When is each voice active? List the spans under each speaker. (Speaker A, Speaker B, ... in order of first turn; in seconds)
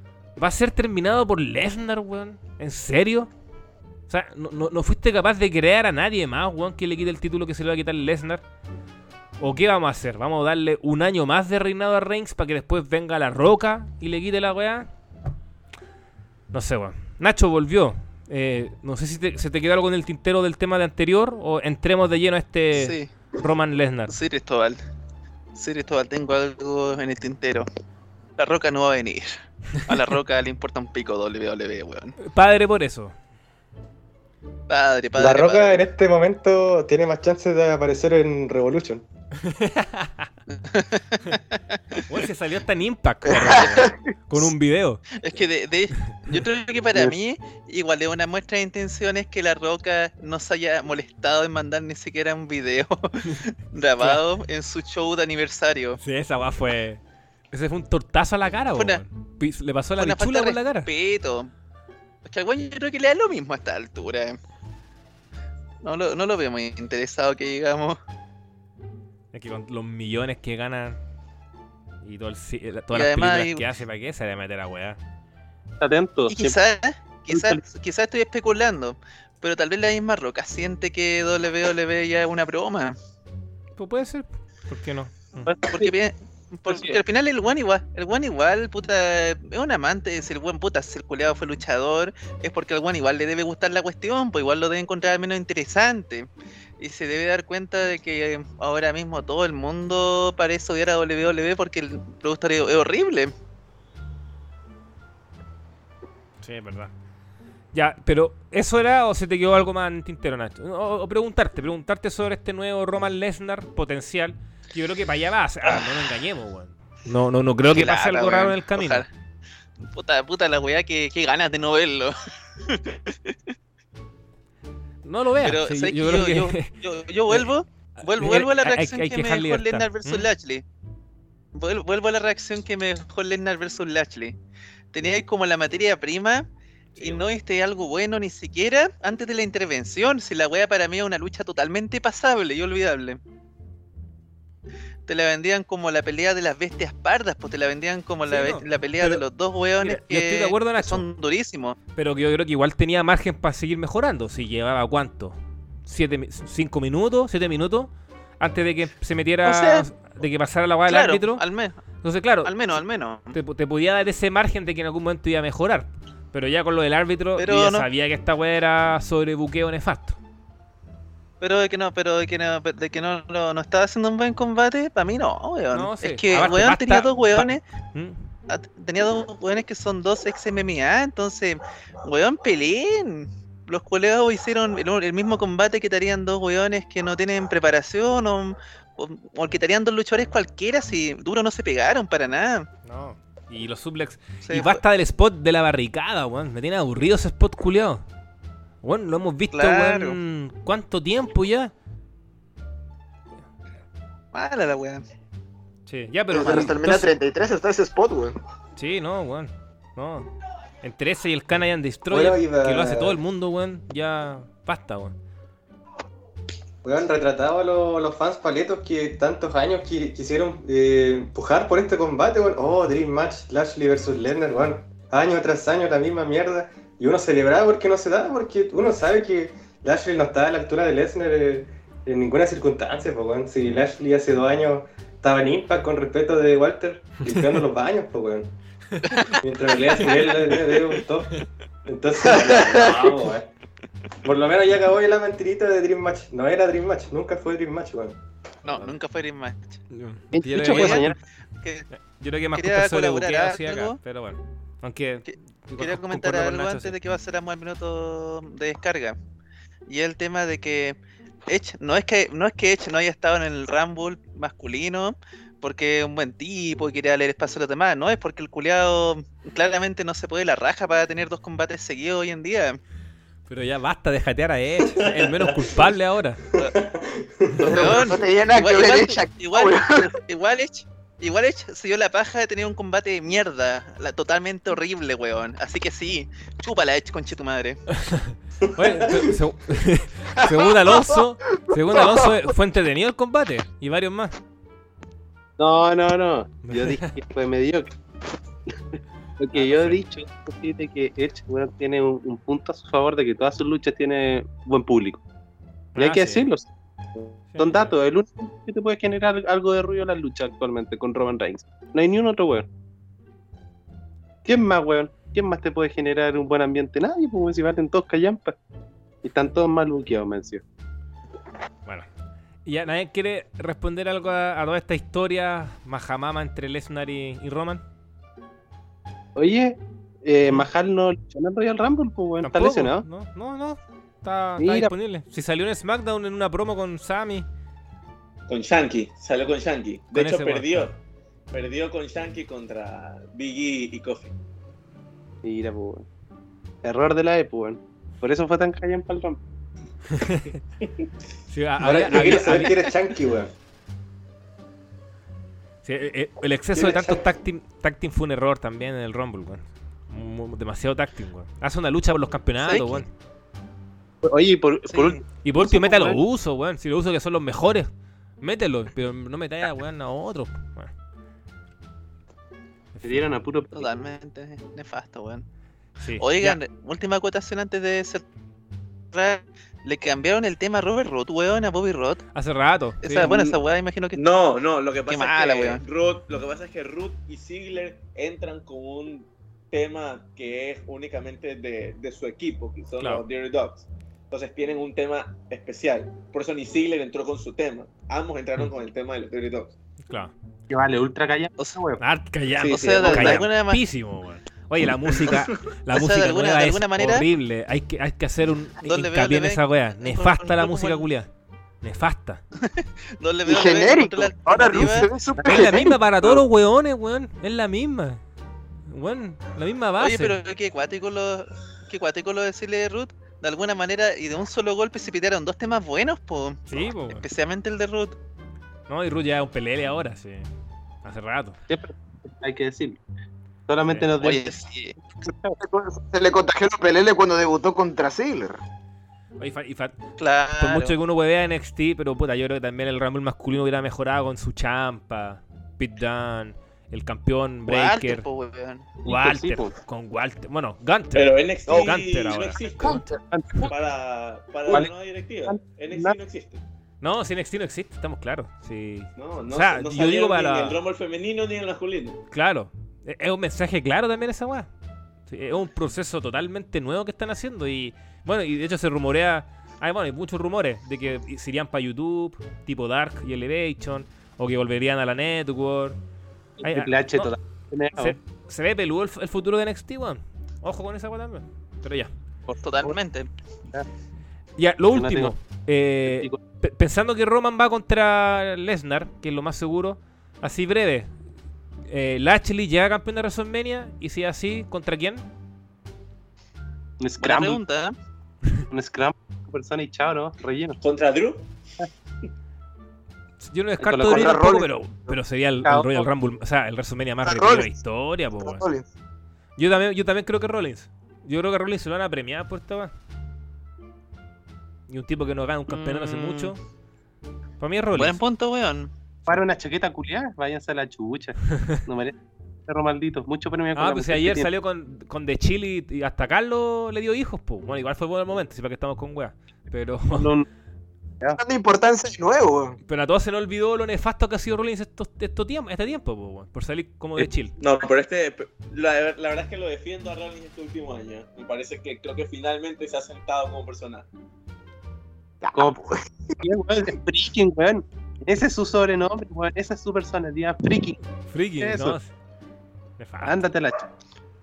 Speaker A: 0.4-3.3, 4.1-8.4, 9.4-14.9, 16.5-24.1, 32.2-33.1, 39.4-40.3, 42.1-45.1, 46.0-46.3, 56.0-60.9, 69.3-71.0, 72.0-75.0, 83.8-85.5, 106.4-106.9, 107.7-119.0, 125.0-126.7, 128.0-130.3, 148.3-149.2, 149.8-151.0, 151.9-161.4, 162.0-162.5, 163.3-170.2, 175.7-178.3, 192.8-198.0, 198.8-201.7, 205.9-207.1, 208.8-210.3, 210.8-215.1, 249.9-251.2, 252.0-256.9, 273.5-276.4, 288.0-294.4, 296.7-297.1, 299.5-300.0, 305.9-306.5, 307.5-308.0, 322.6-327.8, 332.4-337.5, 340.1-340.9, 350.1-350.6, 351.5-352.8, 355.8-363.1, 365.4-370.9, 372.9-373.3, 376.0-376.6, 382.3-383.3, 393.0-393.2, 402.0-411.3, 411.8-412.4, 415.4-418.2, 418.9-420.4, 426.7-427.2, 428.9-430.5, 431.0-431.6, 439.4-440.0, 440.6-448.2, 449.0-453.1, 457.0-460.8, 462.3-464.7, 465.3-476.0, 476.6-477.4, 477.9-482.1, 484.6-491.1, 491.9-495.2, 503.4-508.7, 509.6-512.9, 514.9-516.6, 517.6-518.2, 523.7-530.3, 532.9-537.6, 551.2-552.1, 553.0-553.5
Speaker B: 22.7-23.1, 24.1-24.8, 25.6-27.6, 28.4-29.3, 29.9-32.1, 34.7-35.8, 40.6-41.6, 45.2-56.0, 58.8-59.0, 60.0-61.5, 62.2-64.4, 65.8-68.0, 72.9-73.6, 76.3-83.0, 85.7-96.3, 96.8-103.3, 117.7-119.1, 119.9-122.1, 122.7-123.3, 125.4-130.6, 131.5-134.4, 134.9-143.2, 145.1-151.8, 159.4-159.9, 160.9-161.8, 162.4-163.4, 167.4-167.9, 171.4-177.6, 178.5-192.7, 194.4-194.8, 199.5-200.2, 204.3-205.0, 206.4-206.7, 248.6-249.8, 250.6-251.1, 252.5-254.0, 255.3-259.2, 259.9-260.9, 261.5-272.8, 277.7-287.9, 362.6-363.0, 364.9-365.2, 373.7-375.4, 376.2-378.2, 379.1-382.2, 383.0-384.2, 385.1-385.8, 402.6-403.8, 405.9-407.2, 408.8-411.1, 412.6-415.1, 420.0-428.2, 434.2-435.0, 440.2-440.9, 447.7-448.9, 482.5-483.3, 497.2-497.9, 515.7-516.5, 517.9-518.9
Speaker C: 35.2-39.0, 212.1-213.2, 216.8-238.5, 239.3-243.5, 244.2-248.2, 275.0-275.7, 276.5-278.0, 288.8-289.3, 351.8-353.5, 356.7-357.2
Speaker D: 43.3-44.0, 206.3-208.4, 277.6-280.1, 291.9-292.2, 413.5-416.4, 435.6-438.6, 451.7-452.0, 452.8-453.2, 504.1-505.2, 507.2-507.7, 508.4-508.9, 531.4-532.8, 545.4-546.4
Speaker E: 75.8-76.6, 77.3-77.6, 85.4-85.9, 86.7-87.0, 250.3-251.2, 295.6-297.9, 298.9-305.2, 306.0-312.7, 314.4-318.6, 319.2-320.6, 329.4-333.1, 334.6-334.9, 345.4-346.1, 346.8-349.4, 364.2-366.2, 373.0-373.9, 400.7-402.0, 415.3-415.6, 431.7-433.0, 433.7-434.6, 435.2-435.6, 449.0-449.7, 453.3-453.7, 455.5-456.2, 476.6-478.2, 484.9-485.3, 486.0-486.4, 497.0-497.6, 498.7-500.8, 503.8-504.5, 505.6-506.1, 519.3-522.2, 522.7-524.5, 530.1-530.5, 546.4-551.0, 551.6-552.0, 553.2-553.9
Speaker F: 338.5-340.9, 341.5-344.3, 383.2-383.6, 384.1-399.7, 402.7-403.4, 451.1-453.0, 453.6-456.6, 459.2-462.2, 500.8-501.4, 537.6-544.0